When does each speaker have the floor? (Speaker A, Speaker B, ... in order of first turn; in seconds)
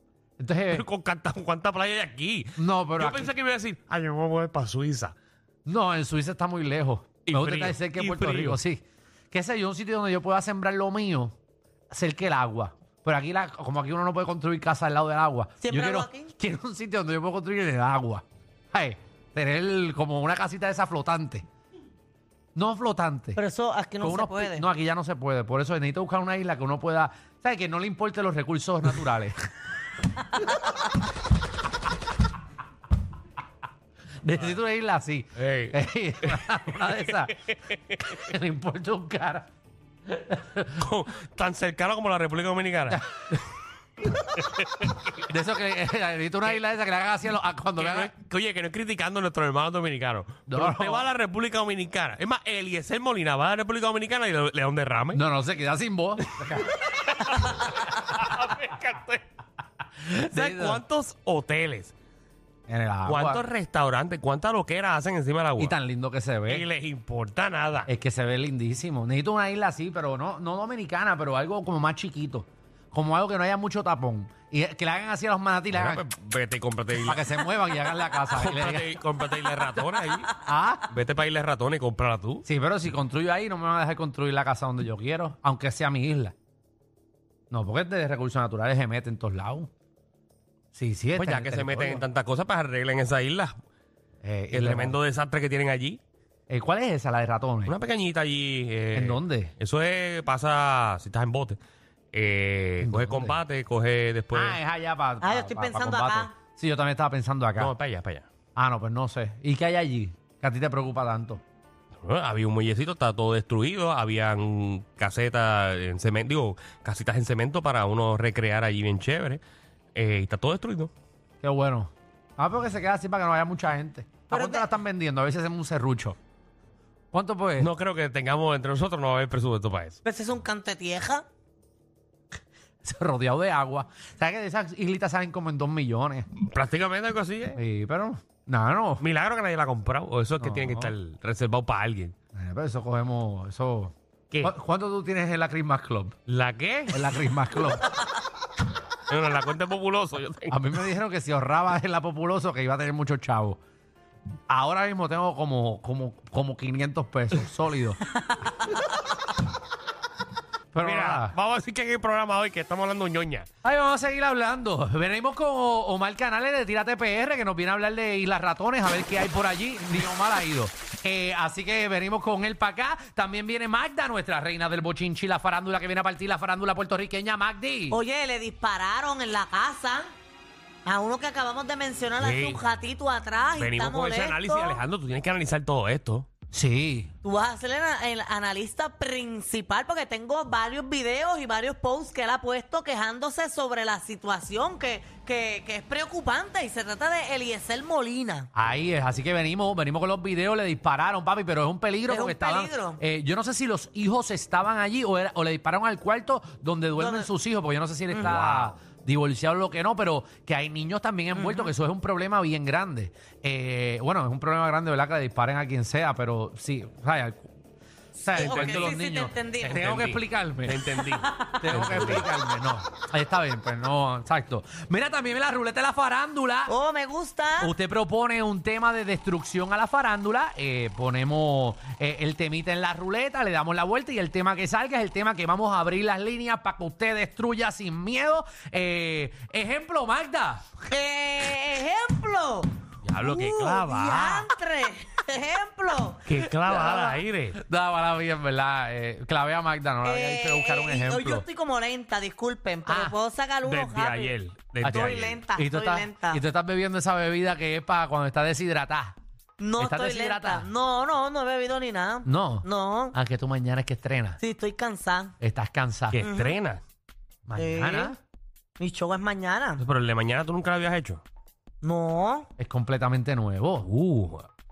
Speaker A: 0.4-0.8, 2.5-3.3, 5.7-11.3, 11.9-21.4, 22.5-23.4, 24.0-29.4, 34.2-37.3, 38.0-39.5, 40.1-40.7, 45.3-48.1, 50.5-51.1, 55.1-56.7, 60.0-60.8, 62.7-63.4, 65.6-66.6, 67.9-76.0, 77.0-78.9, 80.4-80.9, 82.4-86.3, 87.5-89.7, 90.7-92.0, 94.2-95.0, 96.5-97.7, 98.9-99.5, 102.8-103.4, 104.3-107.7, 108.5-111.4, 121.4-126.2, 127.1-127.7, 132.8-136.3, 137.5-139.0, 140.4-140.9, 142.3-146.1, 146.9-147.9, 150.5-153.6, 154.5-158.0, 160.7-161.3, 163.6-178.0, 186.5-187.1, 198.5-217.5, 218.2-220.8, 221.5-226.7, 227.6-240.6, 246.7-251.4, 252.8-253.2, 254.8-259.1, 259.8-260.7, 262.2-264.4, 265.4-266.2, 267.4-268.2, 272.6-273.9
Speaker B: 0.7-5.1, 7.2-8.6, 35.4-38.3, 40.7-43.0, 44.1-45.3, 47.8-55.2, 56.5-59.2, 60.3-61.9, 63.0-65.7, 66.5-67.9, 75.7-82.5, 91.1-93.6, 94.5-96.0, 97.7-101.6, 102.1-104.6, 107.6-108.3, 112.0-119.4, 119.9-120.9, 127.6-130.0, 136.4-137.6, 139.0-142.1, 146.3-147.7, 149.1-150.6, 160.8-163.5, 182.2-182.6, 183.6-186.3, 208.1-208.7, 218.3-218.9, 219.7-222.3, 243.0-244.5, 246.2-247.6, 253.6-255.4, 266.1-266.8, 269.8-271.2, 273.8-274.5
Speaker C: 15.6-16.3, 23.4-24.6, 105.2-106.3, 124.3-124.7, 130.0-131.2, 177.9-180.1, 180.8-184.8, 187.2-198.5, 202.1-203.0, 207.0-207.3, 211.3-211.7, 218.3-219.8, 221.2-221.6, 226.7-227.7, 240.8-246.2, 250.0-254.3, 254.9-256.4, 259.6-263.1, 264.4-265.3, 266.2-266.5, 267.6-268.1, 268.8-269.8, 271.8-272.5